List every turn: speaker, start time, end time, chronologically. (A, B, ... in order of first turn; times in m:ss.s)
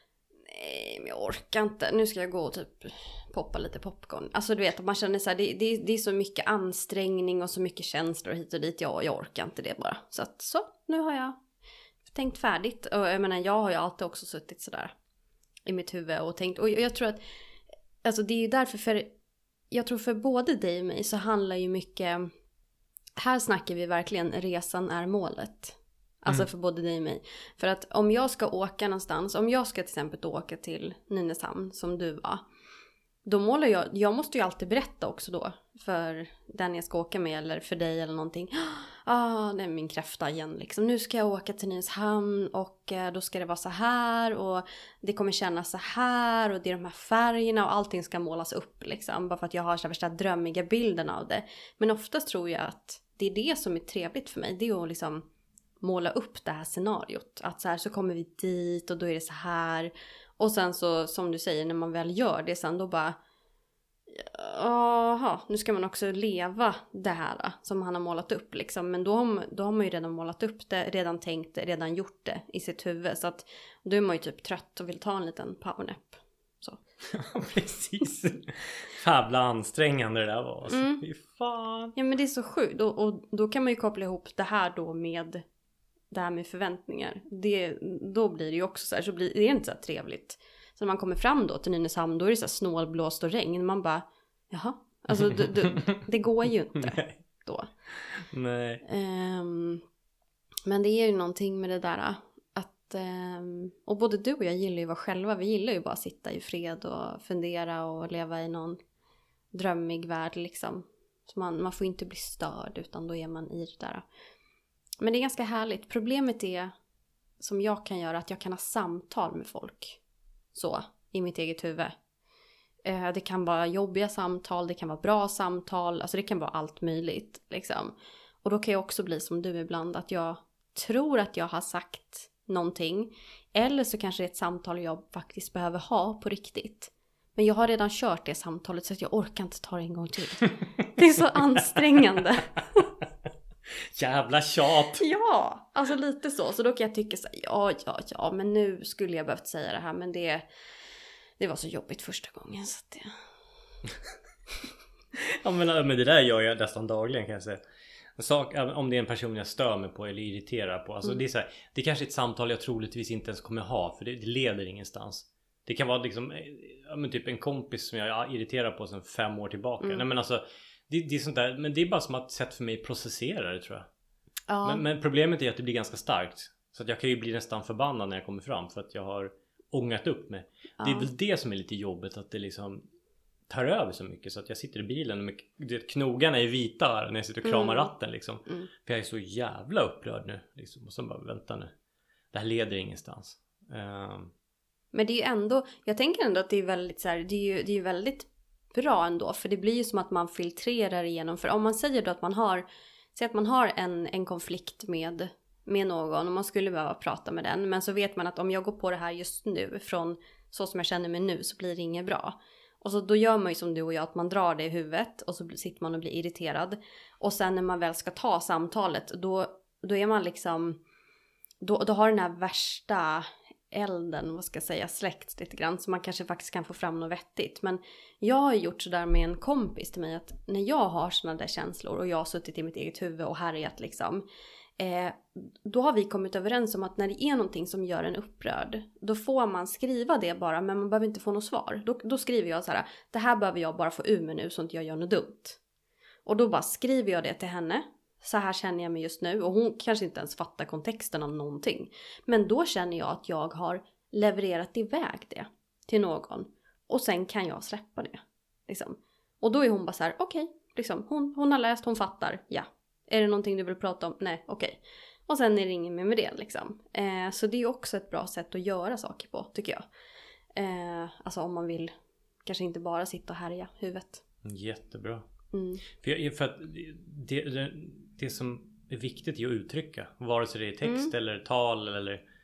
0:00.4-0:11.4 A
0:12.1-0:14.9 A
0:15.6-0:17.2 A
0:18.0-0:19.1 A
0:19.7-0:22.3 A
0:23.2-0:32.4 A
0:33.2-0:55.2 A
0:55.8-1:03.2 A
1:04.1-1:16.8 A
1:17.1-1:21.9 B
1:20.7-1:21.0 A
1:22.0-1:25.4 A
1:26.1-1:37.7 A
1:35.1-1:36.0 B
1:36.7-1:37.2 B
1:37.9-1:38.8 B
1:38.8-1:39.8 A
1:40.6-1:48.8 A
1:49.5-1:54.0 A
1:55.0-1:56.7 A
1:57.4-2:00.0 A
2:00.5-2:01.9 A
2:02.8-2:22.8 A
2:20.6-2:22.0 B
2:23.9-2:25.0 B
2:25.0-2:30.4 A
2:31.4-2:33.1 A
2:35.2-2:37.6 B
2:38.2-2:53.9 B
2:54.5-2:54.8 A
2:54.6-3:02.8 B
3:00.8-3:01.1 A
3:03.5-3:11.7 B
3:07.4-3:07.9 A
3:12.3-3:14.3 B
3:14.9-3:40.8 A
3:41.6-3:54.2 A
3:54.8-4:05.6 A
4:06.2-4:29.9 A
4:30.5-4:31.9 A
4:32.4-4:34.2 A
4:34.4-4:35.2 B
4:35.5-4:35.8 A
4:36.0-4:42.2 B
4:40.8-4:41.1 A